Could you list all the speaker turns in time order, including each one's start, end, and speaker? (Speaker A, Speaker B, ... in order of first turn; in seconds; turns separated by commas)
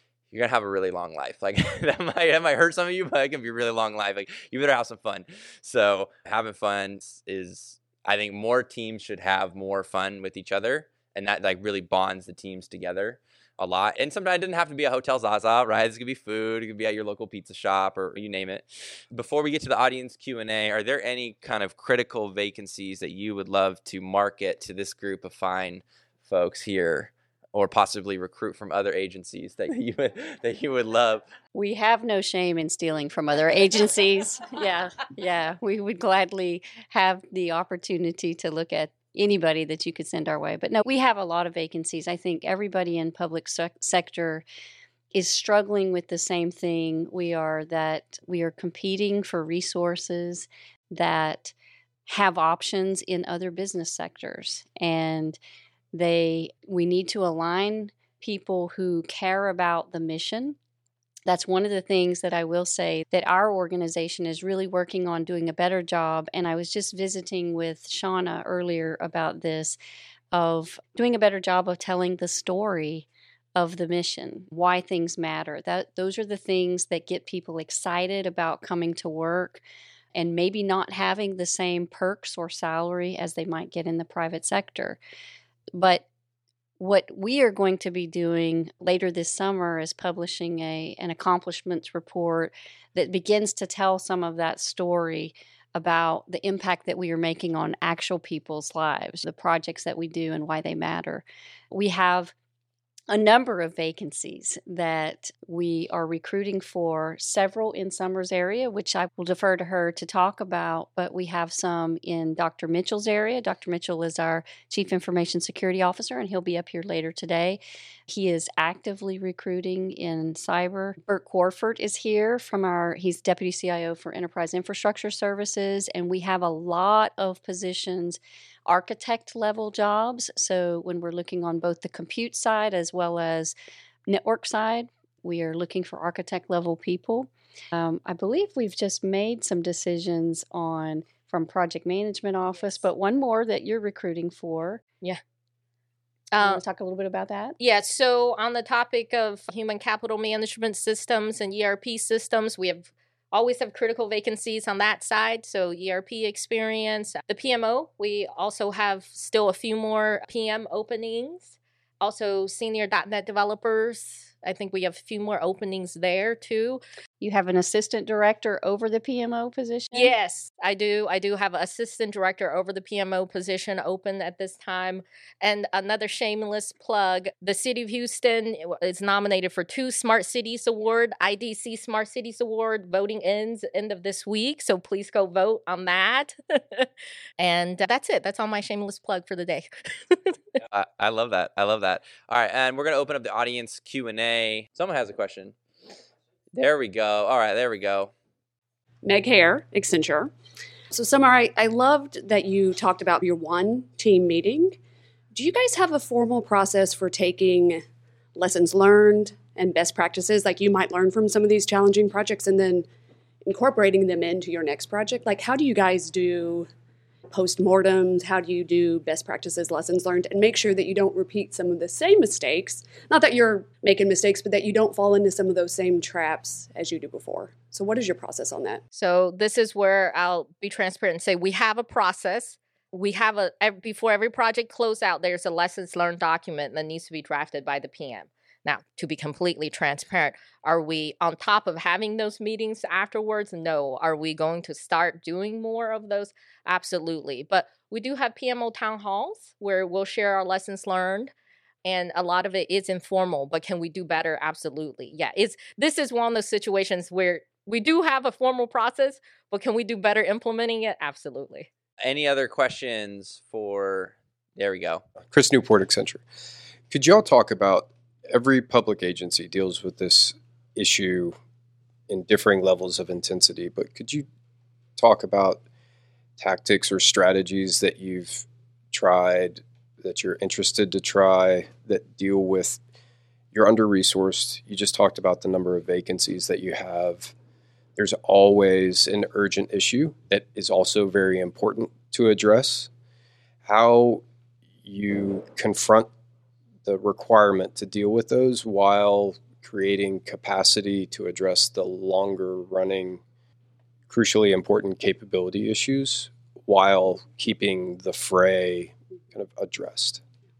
Speaker A: 0.3-31.2, Speaker B: 31.5-44.4, Speaker B: 45.1-51.5, Speaker B: 52.0-55.4, Speaker B: 55.9-60.6, Speaker B: 61.2-69.8, Speaker B: 70.3-79.6, Speaker B: 80.1-85.0, Speaker B: 85.7-86.0, Speaker B: 86.8-102.3, Speaker B: 103.1-133.5, Speaker B: 134.1-144.8, Speaker C: 146.3-146.6, Speaker B: 146.4-147.6, Speaker C: 147.6-166.8, Speaker B: 167.2-170.1, Speaker C: 169.9-190.4, Speaker A: 190.7-195.5, Speaker A: 196.5-198.1, Speaker D: 199.0-200.3, Speaker D: 200.9-204.8, Speaker D: 205.3-207.8, Speaker D: 208.3-212.9, Speaker D: 213.4-216.7, Speaker D: 217.3-228.8, Speaker C: 228.9-251.3, Speaker C: 251.8-261.7, Speaker A: 262.0-265.0, Speaker E: 265.3-266.2, Speaker E: 266.9-271.4, Speaker E: 272.1-274.2, Speaker E: 275.0-275.6, Speaker E: 276.4-282.8, Speaker E: 283.5-287.3, Speaker E: 287.9-292.9, Speaker E: 293.6-294.2, Speaker E: 294.8-296.1, Speaker E: 296.8-303.2, Speaker E: 304.1-310.2